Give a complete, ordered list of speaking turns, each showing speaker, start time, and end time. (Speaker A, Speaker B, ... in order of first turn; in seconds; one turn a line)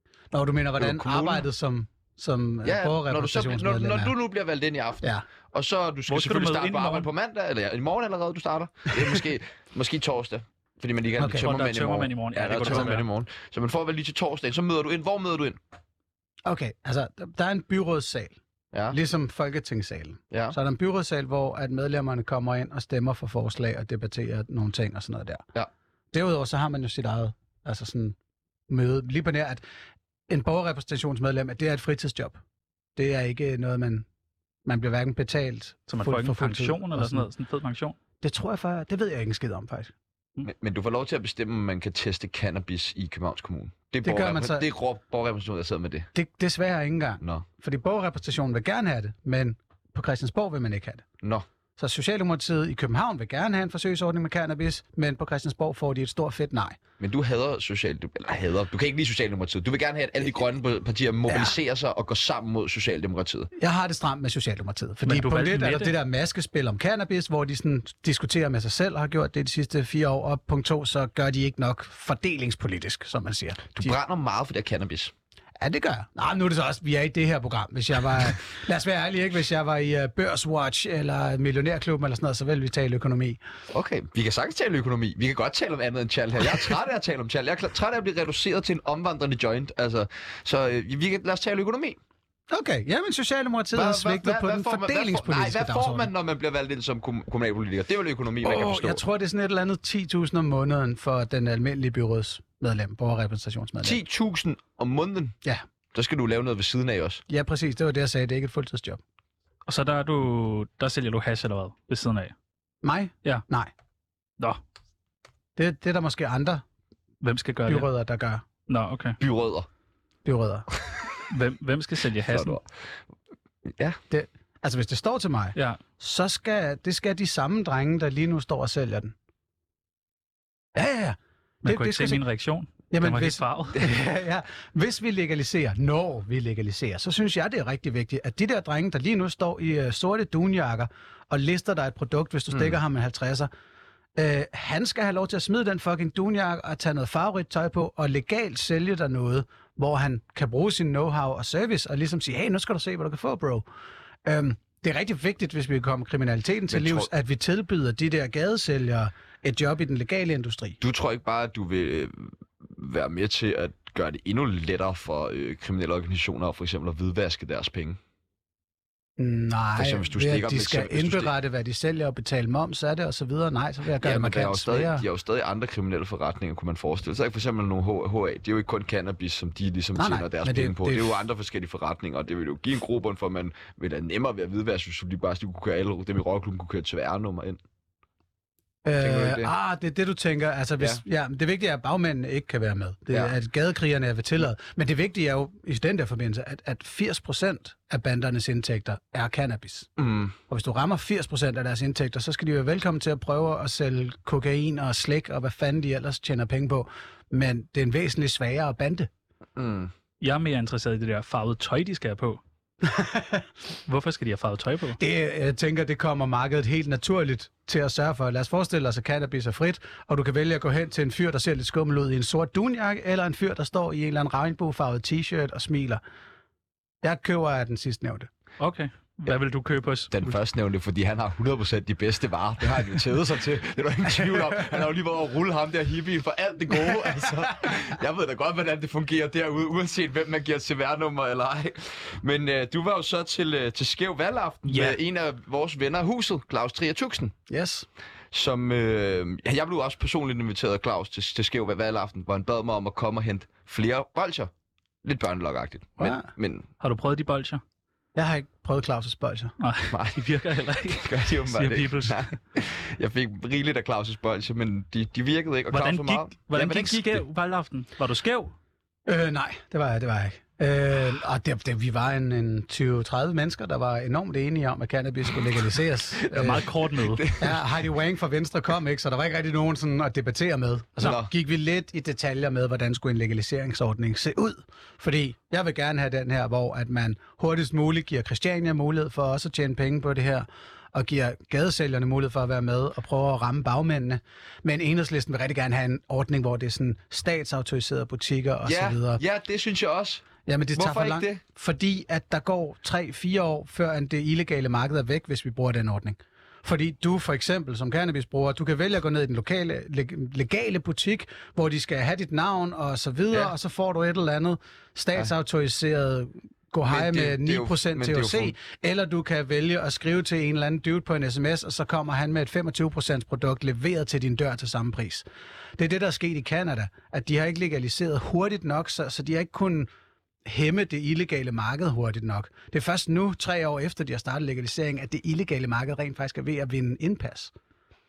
Speaker A: 0.3-4.1
Speaker B: 0.8-1.4
Speaker B: 2.6-15.6
Speaker C: 6.1-7.1
Speaker A: 11.2-11.5
Speaker C: 11.4-13.0
Speaker A: 16.4-18.4
Speaker B: 18.7-19.0
Speaker A: 18.9-25.4
Speaker B: 20.3-20.6
Speaker A: 26.1-28.1
Speaker A: 28.7-29.6
Speaker A: 30.3-32.4
Speaker A: 33.0-34.0
Speaker A: 34.6-37.3
Speaker C: 35.9-38.0
Speaker A: 38.2-39.9
Speaker B: 40.4-46.1
Speaker A: 44.0-44.7
Speaker A: 46.1-51.0
Speaker A: 51.8-56.8
Speaker B: 57.0-63.5
Speaker A: 61.3-61.5
Speaker A: 63.6-74.0
Speaker C: 65.0-65.9
Speaker B: 73.8-75.1
Speaker A: 75.6-83.4
Speaker B: 83.7-92.0
Speaker A: 92.5-96.1
Speaker B: 93.7-99.0
Speaker A: 98.4-104.0
Speaker B: 103.8-105.3
Speaker B: 105.9-107.2
Speaker A: 107.3-109.0
Speaker C: 109.7-112.3
Speaker A: 112.8-113.7
Speaker A: 115.5-116.6
Speaker C: 117.2-117.9
Speaker A: 117.7-118.4
Speaker C: 118.7-119.2
Speaker B: 119.2-119.7
Speaker A: 120.2-120.7
Speaker C: 121.3-122.6
Speaker B: 122.3-122.7
Speaker B: 123.7-124.0
Speaker A: 124.1-129.1
Speaker C: 125.5-125.8
Speaker A: 130.7-132.2
Speaker C: 131.7-133.8
Speaker A: 132.9-143.5
Speaker B: 142.5-142.8
Speaker A: 144.2-153.6
Speaker A: 154.2-160.8
Speaker B: 156.7-157.1
Speaker B: 160.8-168.0
Speaker A: 169.2-175.0
Speaker B: 169.8-171.3
Speaker B: 174.0-187.6
Speaker A: 179.9-181.2
Speaker A: 188.8-199.9
Speaker B: 189.0-189.5
Speaker B: 200.0-200.3
Speaker A: 200.5-209.1
Speaker B: 209.6-209.9
Speaker C: 210.2-212.4
Speaker A: 212.8-213.5
Speaker C: 213.9-215.0
Speaker A: 215.0-226.0
Speaker A: 227.0-228.3
Speaker C: 228.6-230.3
Speaker B: 230.1-247.3
Speaker C: 244.7-244.9
Speaker A: 247.5-247.9
Speaker B: 248.3-254.5
Speaker B: 255.0-256.7
Speaker C: 256.8-257.6
Speaker A: 258.1-259.5
Speaker C: 259.6-262.3
Speaker B: 259.9-260.2
Speaker B: 260.9-267.2
Speaker C: 265.7-268.5
Speaker A: 269.1-276.6
Speaker C: 276.3-277.2
Speaker B: 276.5-277.6
Speaker A: 277.4-299.2
Speaker B: 281.0-281.3
Speaker B: 298.6-301.4
Speaker A: 300.4-325.2
Speaker B: 316.9-318.5
Speaker A: 325.8-329.9
Speaker A: 330.4-337.5